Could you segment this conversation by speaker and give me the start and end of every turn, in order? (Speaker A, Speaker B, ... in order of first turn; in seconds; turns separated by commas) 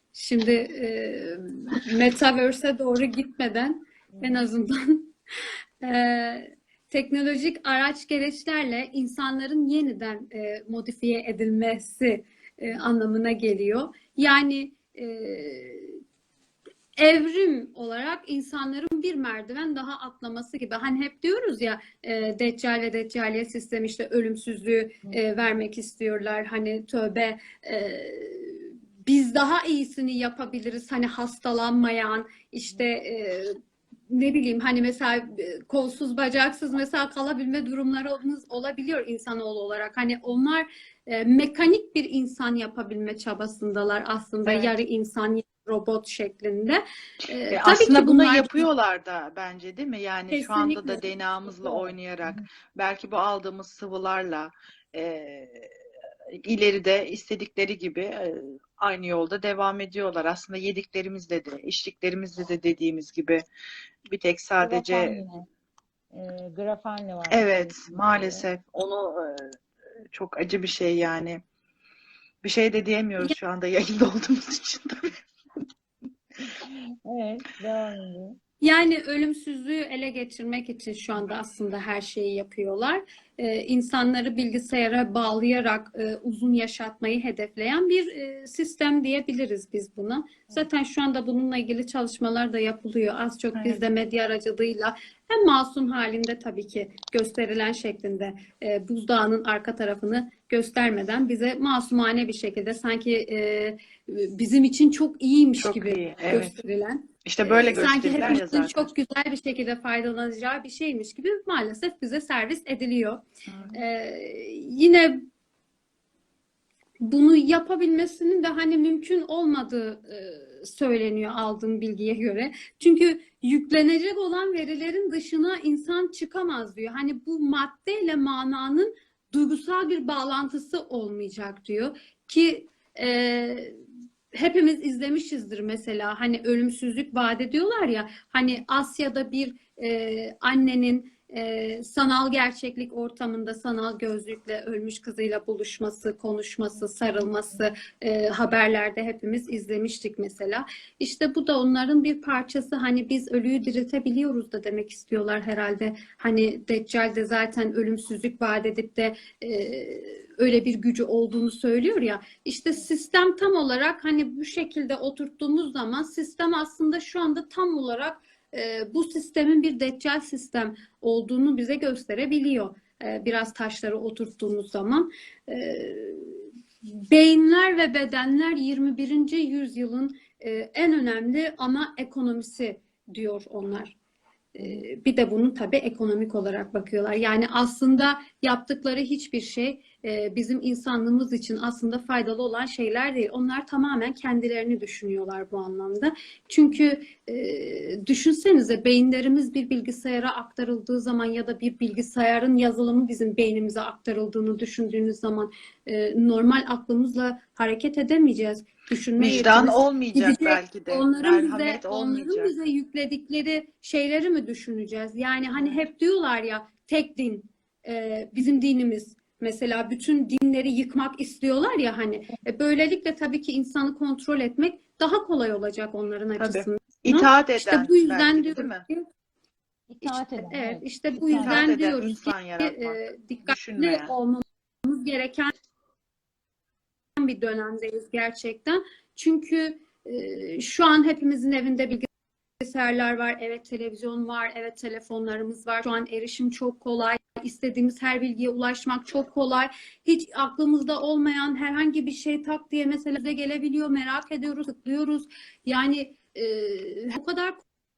Speaker A: 0.1-5.1, Speaker B: 4.1-4.5, Speaker A: 5.8-16.0, Speaker A: 17.0-48.7, Speaker B: 25.0-25.5, Speaker C: 44.5-44.7, Speaker C: 47.5-55.7, Speaker A: 50.3-51.0, Speaker B: 51.5-52.4, Speaker C: 56.3-63.4, Speaker C: 64.1-65.2, Speaker B: 64.6-65.4, Speaker B: 66.1-68.4, Speaker C: 67.3-69.6, Speaker C: 70.1-71.4, Speaker C: 72.4-75.2, Speaker B: 76.4-78.4, Speaker A: 78.6-115.2, Speaker C: 93.5-93.8, Speaker C: 105.6-106.6, Speaker C: 107.2-108.9, Speaker C: 113.5-113.8, Speaker A: 117.0-133.8, Speaker A: 134.3-176.4, Speaker B: 146.7-147.7, Speaker A: 177.1-184.0, Speaker A: 184.5-229.1, Speaker B: 184.6-184.8, Speaker C: 209.2-212.5, Speaker C: 226.4-228.8, Speaker B: 229.9-231.7, Speaker A: 230.0-235.5, Speaker C: 231.3-234.1, Speaker A: 237.2-242.1, Speaker A: 242.6-257.6